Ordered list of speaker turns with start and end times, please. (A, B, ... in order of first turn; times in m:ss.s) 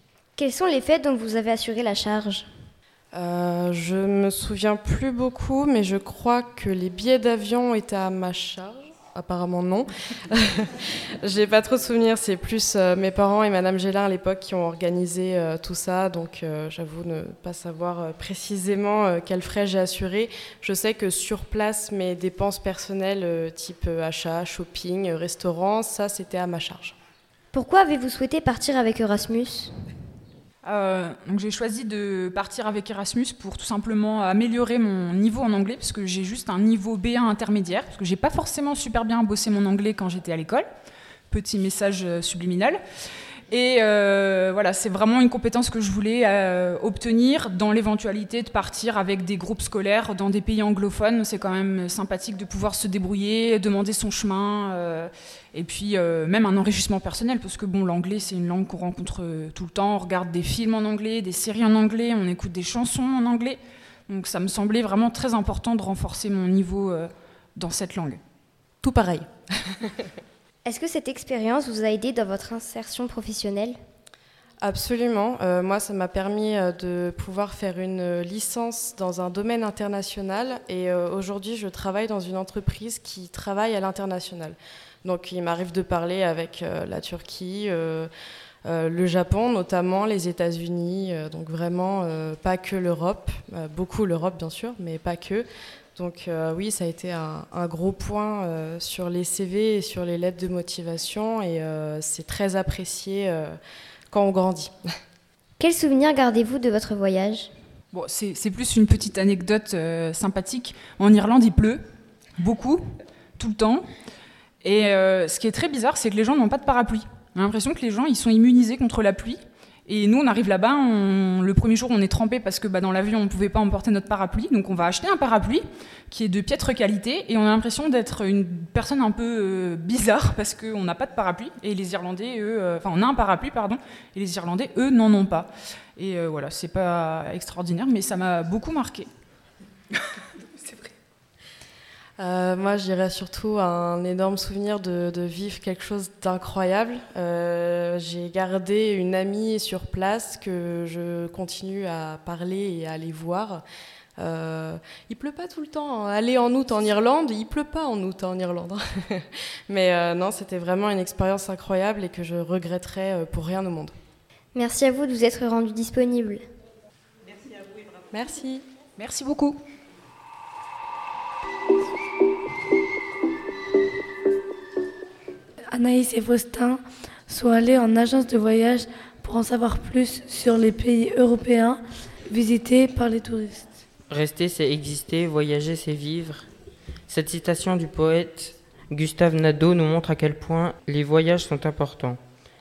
0:00.4-0:02.5 A
0:03.1-0:27.0 B
0:27.5-0:29.7 A
0:30.6-0:40.7 C
0:41.3-0:42.8 C
0:43.5-1:08.2 C
1:09.0-1:09.3 B
1:10.6-1:13.8 A
1:14.6-1:28.1 B
1:28.7-1:43.6 B
1:44.1-1:44.7 B
1:45.6-1:47.5 A
1:47.9-1:51.8 C
1:52.4-1:52.8 C
1:53.4-1:53.9 C
1:54.6-2:19.1 C
2:22.2-2:33.6 B
2:34.2-2:44.0 B
2:44.6-2:46.4 A
2:48.1-2:48.6 B
2:49.0-2:49.6 C
2:55.7-3:03.8 D
3:04.1-3:06.5 E
3:07.1-3:12.2 E